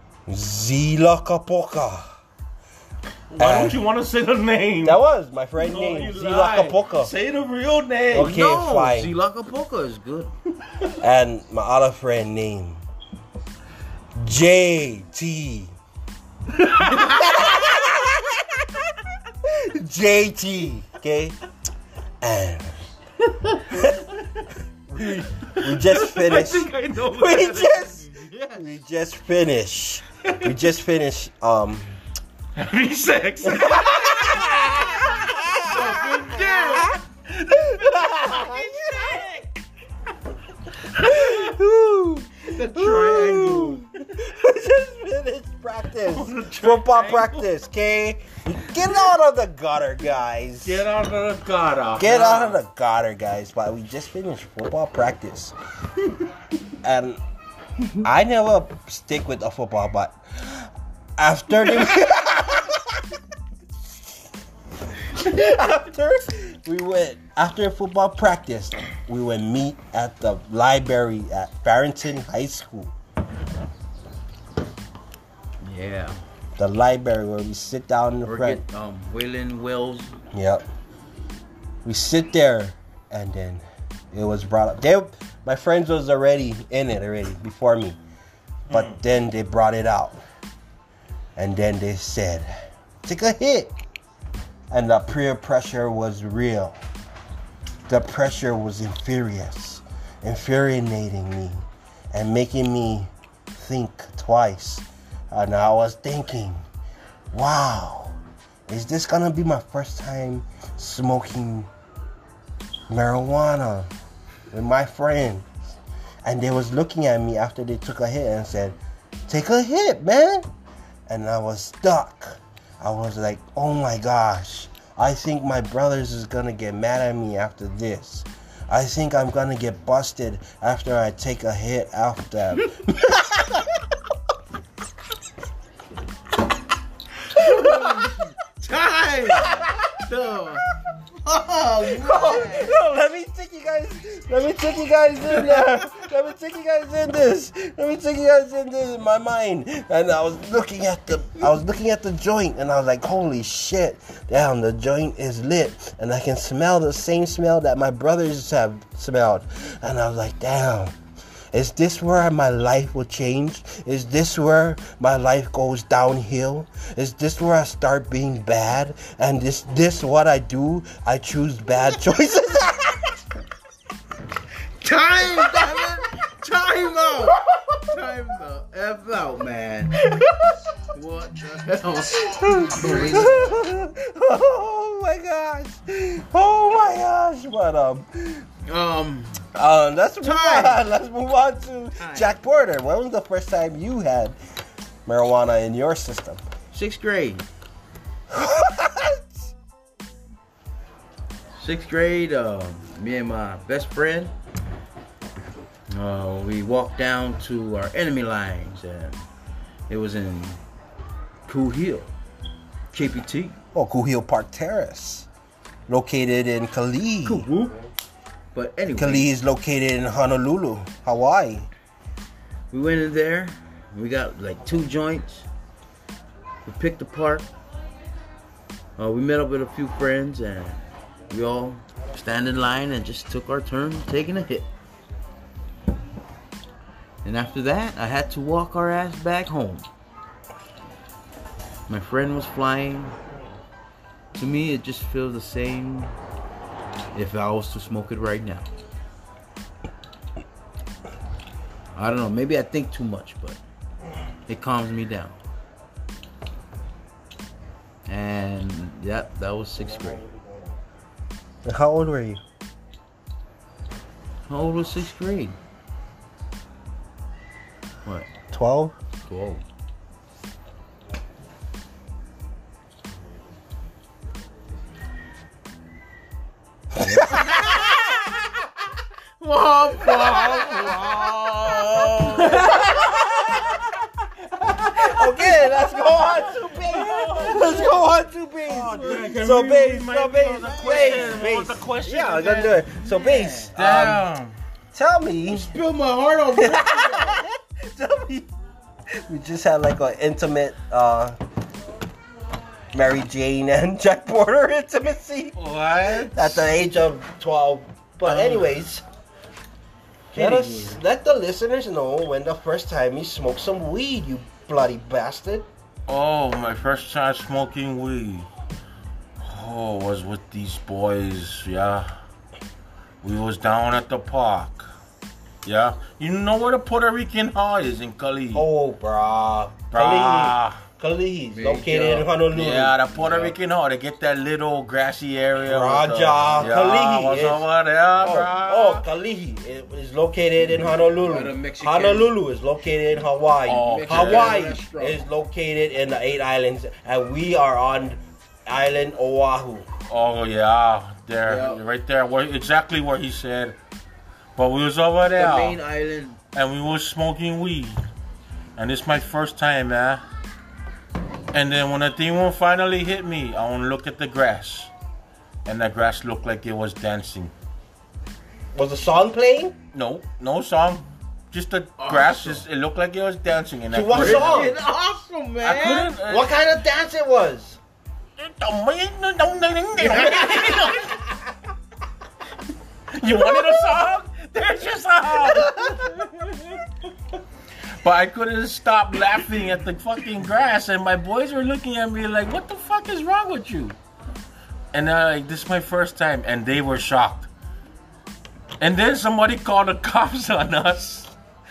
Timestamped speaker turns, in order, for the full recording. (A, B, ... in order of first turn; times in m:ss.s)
0:00.3-0:02.1 A
0:03.3-0:05.0 B
0:03.4-0:03.8 A
0:04.8-0:07.1 A
0:05.6-0:08.4 B
0:08.1-0:09.2 A
0:08.2-0:10.3 C
0:11.0-0:12.8 A
0:14.2-0:15.7 A
0:16.6-0:17.6 B
0:16.9-0:18.9 A
0:19.4-0:21.4 A
0:22.2-0:22.8 A
0:23.7-0:24.0 A
0:24.9-0:32.0 A
0:25.5-0:28.5 B
0:32.6-0:39.6 B
0:33.4-0:37.0 A
0:35.7-0:36.8 C
0:37.5-0:39.3 A
0:41.0-0:41.5 B
0:41.0-0:50.9 A
0:42.4-0:44.2 B
0:46.1-0:47.5 B
0:50.6-0:52.6 B
0:52.0-0:55.5 A
0:56.8-0:57.2 A
0:58.0-1:03.0 A
1:05.1-1:12.9 A
1:15.6-1:16.2 C
1:16.6-1:18.6 A
1:18.2-1:20.2 C
1:20.3-1:20.6 A
1:21.8-1:28.0 A
1:28.7-1:29.0 B
1:28.7-1:30.2 A
1:31.4-1:32.5 A
1:33.0-1:33.7 A
1:34.7-1:36.8 A
1:37.9-1:46.6 A
1:47.3-1:48.2 A
1:48.7-1:51.7 A
1:52.9-1:53.9 A
1:54.5-2:00.5 A
2:01.1-2:13.8 A
2:17.3-2:20.7 C
2:17.4-2:18.1 A
2:19.3-2:20.0 A
2:21.2-2:22.8 C
2:21.9-2:41.0 A
2:41.5-2:53.2 A
2:54.8-3:00.0 C
2:55.6-2:55.9 A
2:57.5-2:57.9 A
3:00.0-3:00.7 A
3:00.9-3:03.5 C
3:02.1-3:08.5 A
3:08.7-3:09.4 C
3:09.6-3:14.4 A
3:10.2-3:10.8 C
3:12.0-3:12.4 C
3:15.1-3:16.4 A
3:16.7-3:17.4 C
3:18.3-3:19.5 A
3:21.6-3:24.3 C
3:25.9-3:29.2 C
3:29.9-3:30.6 C
3:31.5-3:32.1 C
3:32.9-3:33.6 C
3:33.7-3:35.3 A
3:35.9-3:37.5 A
3:37.2-3:37.8 C
3:38.5-3:39.3 C
3:39.0-3:41.7 A
3:42.7-3:45.5 C
3:46.6-3:47.5 C
3:49.0-3:54.7 C
3:57.2-3:59.9 C
4:01.9-4:03.2 C
4:04.3-4:06.1 C
4:07.2-4:08.7 C
4:12.0-4:13.6 C
4:14.5-4:15.4 C
4:18.1-4:20.2 C
4:21.6-4:22.4 A
4:24.5-4:25.6 C
4:28.5-4:29.0 A
4:29.3-4:29.6 C
4:37.0-4:38.7 A
4:37.0-4:37.6 C
4:39.4-4:42.7 C
4:40.0-4:41.1 A
4:42.3-4:43.8 A
4:42.4-4:43.8 B
4:44.6-4:48.1 B
4:44.9-4:54.2 A
4:48.7-4:52.8 B
4:50.6-4:51.5 C
4:53.0-4:53.8 C
4:53.8-4:54.6 B
4:54.9-4:55.7 A
4:55.5-4:57.4 C
4:56.6-4:58.5 A
4:59.1-5:01.4 A
5:02.9-5:09.0 A
5:05.6-5:06.6 B
5:08.2-5:08.8 B
5:10.3-5:15.7 A
5:10.3-5:11.0 C
5:16.1-5:18.5 B
5:19.4-5:22.2 B
5:23.2-5:24.9 B
5:25.6-5:28.7 B
5:28.5-5:33.0 A
5:29.9-5:30.8 B
5:31.5-5:32.3 C
5:32.5-5:39.0 B
5:33.1-5:33.6 C
5:35.6-5:37.7 A
5:38.2-5:49.9 A
5:40.8-5:42.3 C
5:43.7-5:44.6 B
5:43.8-5:45.2 C
5:50.1-5:53.8 B
5:51.4-5:51.8 C
5:54.6-5:55.8 B
5:55.3-5:56.4 C
5:56.5-5:58.0 B
5:58.8-6:00.2 B
6:01.5-6:04.9 B
6:05.7-6:07.5 B
6:08.7-6:09.8 A
6:09.9-6:14.7 B
6:12.0-6:12.6 C
6:13.9-6:14.8 A
6:14.1-6:16.1 C
6:15.6-6:16.5 B
6:16.2-6:17.8 A
6:18.4-6:21.2 B
6:20.0-6:21.2 A
6:20.1-6:20.6 C
6:23.2-6:26.8 B
6:23.3-6:23.9 A
6:25.4-6:26.1 A
6:28.0-6:34.0 B
6:34.9-6:37.5 B
6:38.8-6:41.3 B